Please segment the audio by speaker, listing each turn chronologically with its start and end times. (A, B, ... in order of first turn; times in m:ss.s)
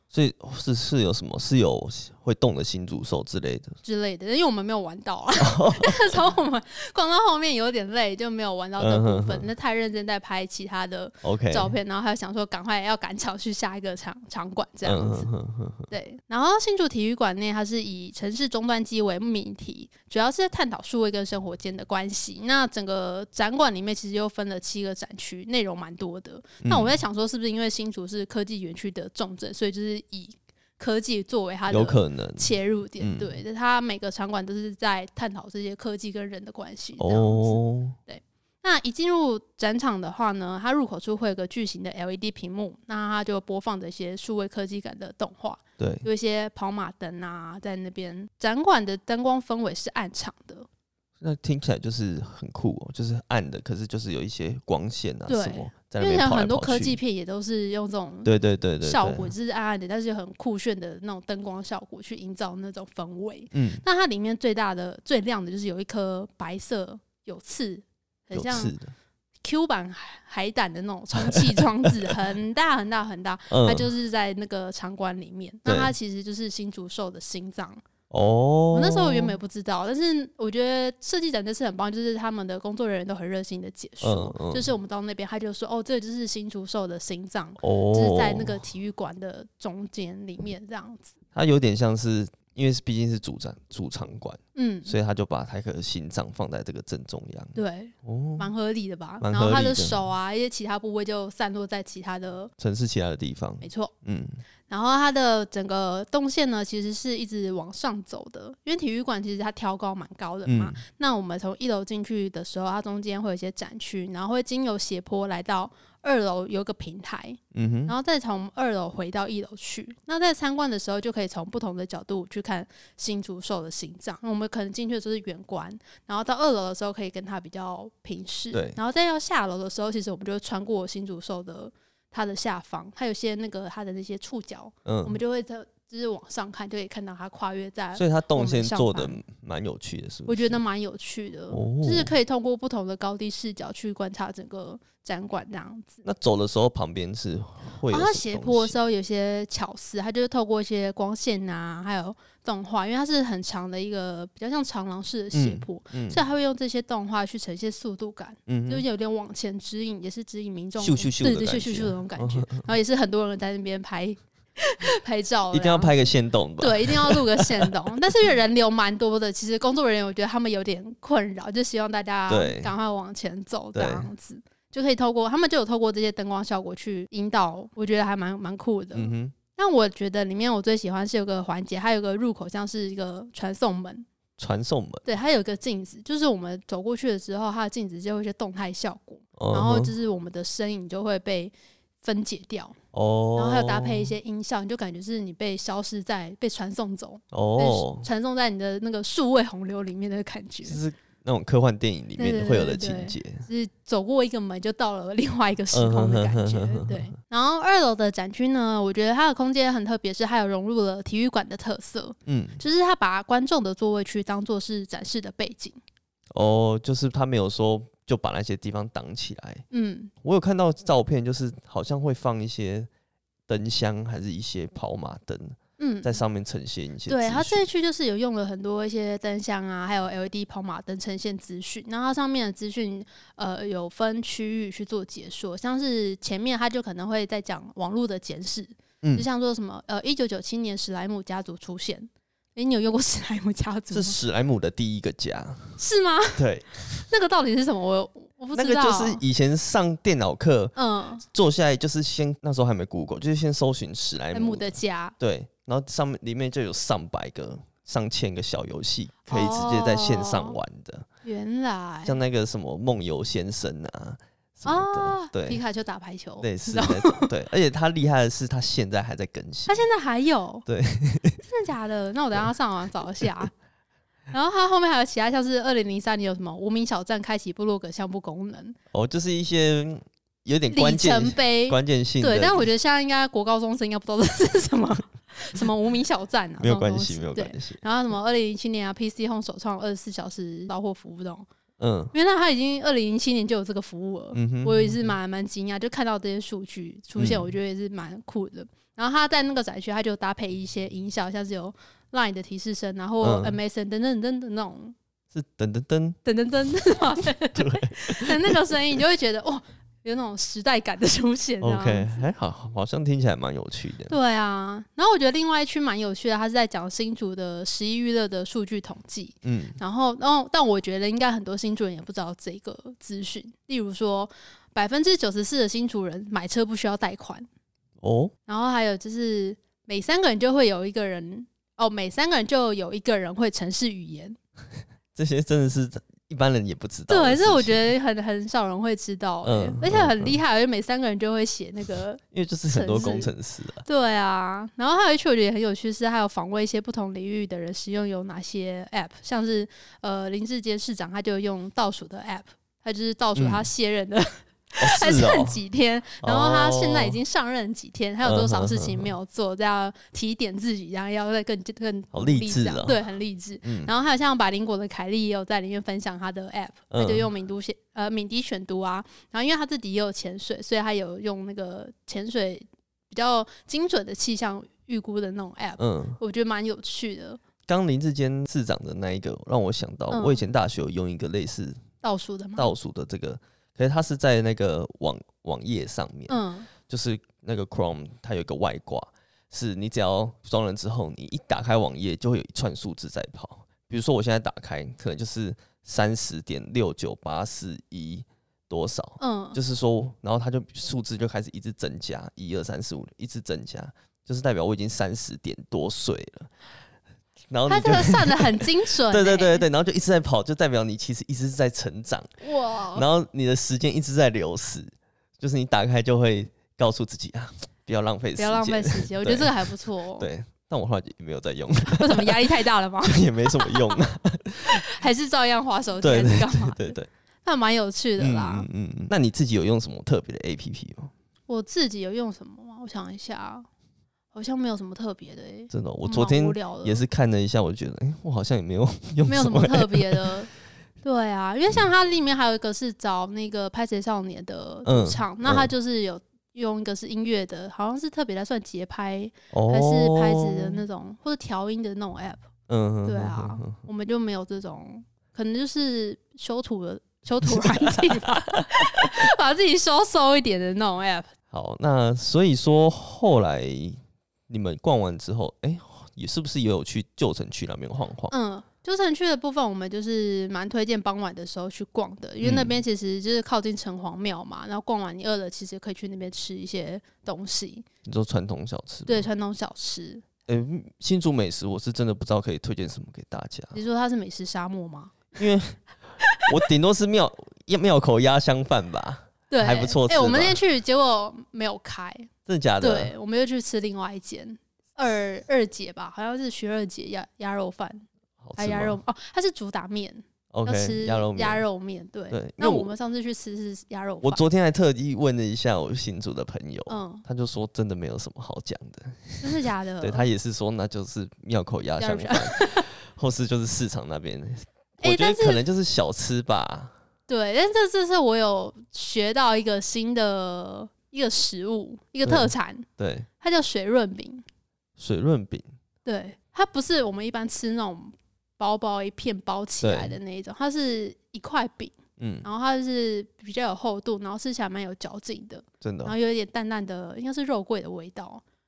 0:00.1-0:03.8 A
0:03.8-0:15.3 B
0:05.4-0:06.2 A
0:08.8-0:09.5 A
0:11.2-0:11.8 A
0:14.8-0:15.9 A
0:15.9-0:50.7 B
0:26.6-0:27.0 A
0:31.7-0:33.4 A
0:37.0-0:38.0 A
0:45.8-0:46.1 A
0:51.2-0:57.0 A
0:55.3-0:58.3 B
0:58.2-0:59.3 A
0:58.8-1:08.7 B
1:03.5-1:03.8 A
1:08.3-1:08.9 A
1:09.4-1:17.8 B
1:11.2-1:12.1 A
1:13.5-1:13.9 A
1:15.6-1:15.9 A
1:18.1-1:19.4 A
1:18.7-1:31.1 B
1:24.0-1:24.7 A
1:27.6-1:28.6 A
1:31.3-1:38.5 A
1:34.6-1:34.9 B
1:37.6-1:42.5 B
1:39.2-1:40.0 A
1:42.6-1:44.4 A
1:43.6-1:43.9 B
1:44.7-2:19.2 B
1:50.4-1:50.8 A
1:57.5-1:57.9 A
2:08.5-2:08.8 A
2:14.8-2:15.2 A
2:17.9-2:20.6 A
2:20.3-2:26.0 B
2:21.5-2:22.1 A
2:26.0-2:28.8 A
2:27.9-2:45.9 B
2:35.3-2:36.2 A
2:38.5-2:38.8 A
2:40.8-2:42.7 A
2:45.5-2:47.7 A
2:46.6-3:04.1 B
2:52.3-2:52.7 A
2:53.8-2:54.1 A
2:58.9-2:59.4 A
3:04.4-3:05.0 A
3:05.1-3:12.8 B
3:09.4-3:09.9 A
3:12.9-3:14.1 A
3:13.4-3:20.8 B
3:17.3-3:18.1 A
3:20.6-3:23.4 A
3:22.2-3:35.8 B
3:25.7-3:27.1 A
3:32.3-3:32.6 A
3:36.3-3:39.6 A
3:39.7-3:40.1 B
3:40.2-3:42.9 A
3:43.5-3:47.6 A
3:45.8-3:46.2 B
3:47.1-4:04.2 B
3:59.0-3:59.3 A
4:03.9-4:05.8 A
4:05.8-4:06.4 B
4:06.4-4:07.1 A
4:07.1-4:09.2 B
4:08.5-4:10.7 A
4:10.8-4:11.2 B
4:11.2-4:21.1 A
4:14.3-4:15.1 B
4:19.3-4:20.6 B
4:21.2-4:22.2 B
4:22.0-4:25.6 A
4:24.6-4:27.3 B
4:26.4-4:29.8 A
4:29.6-4:30.6 B
4:30.6-4:31.4 A
4:31.4-4:33.5 B
4:34.3-4:38.8 B
4:38.9-4:42.7 A
4:40.7-4:51.4 B
4:46.6-4:47.8 A
4:51.8-4:52.1 A
4:52.1-5:05.0 B
4:54.3-4:55.1 A
4:57.2-4:57.5 A
5:03.2-5:03.6 A
5:05.3-5:06.2 A
5:06.2-5:12.3 B
5:07.5-5:08.8 A
5:11.6-5:14.2 A
5:14.1-5:27.5 B
5:19.4-5:19.8 A
5:28.0-5:28.3 A
5:28.5-5:34.4 B
5:35.1-5:37.9 A
5:37.1-5:43.3 B
5:39.4-5:40.4 A
5:42.3-5:43.8 A
5:43.8-6:17.4 B
5:53.4-5:53.7 A
5:54.8-5:55.6 A
5:56.2-5:57.2 A
5:58.2-5:59.1 A
6:02.1-6:03.0 A
6:03.6-6:03.9 A
6:06.9-6:07.3 A
6:15.8-6:16.2 A
6:17.6-6:21.8 A
6:20.1-6:20.4 B
6:22.0-6:22.7 B
6:22.6-6:46.5 A
6:26.3-6:26.7 B
6:39.2-6:39.6 B
6:47.5-6:52.4 A
6:47.6-6:49.6 B
6:52.4-6:53.1 B
6:52.9-7:04.8 A
6:58.4-7:00.3 B
7:01.9-7:04.0 B
7:04.7-7:08.7 B
7:06.0-7:07.1 A
7:08.2-7:11.1 A
7:11.5-7:13.7 B
7:14.3-7:17.0 B
7:15.7-7:20.3 A
7:19.3-7:20.5 B
7:21.0-7:32.4 B
7:24.8-7:25.7 A
7:29.5-7:30.8 A
7:32.7-7:33.8 A
7:33.0-7:41.3 B
7:37.4-7:39.1 A
7:41.5-7:48.3 A
7:48.3-7:57.8 B
7:52.4-7:52.8 A
7:58.0-7:59.3 A
7:59.1-8:00.2 B
8:00.5-8:03.8 A
8:03.7-8:05.3 B
8:05.4-8:05.8 A
8:06.2-8:06.5 B
8:06.5-8:10.6 A
8:09.5-8:18.0 B
8:12.5-8:13.1 A
8:18.4-8:19.0 A
8:18.6-8:24.4 B
8:20.5-8:21.6 A
8:22.3-8:22.9 A
8:24.2-8:36.9 A
8:26.9-8:27.2 B
8:29.4-8:30.3 B
8:32.0-8:32.9 B
8:35.0-8:35.6 B
8:37.3-8:42.9 B
8:42.2-8:43.3 A
8:43.4-8:44.4 B
8:45.0-8:45.7 A
8:46.0-8:58.4 B
8:49.8-8:50.2 A
8:52.2-8:52.5 A
8:55.8-8:56.1 A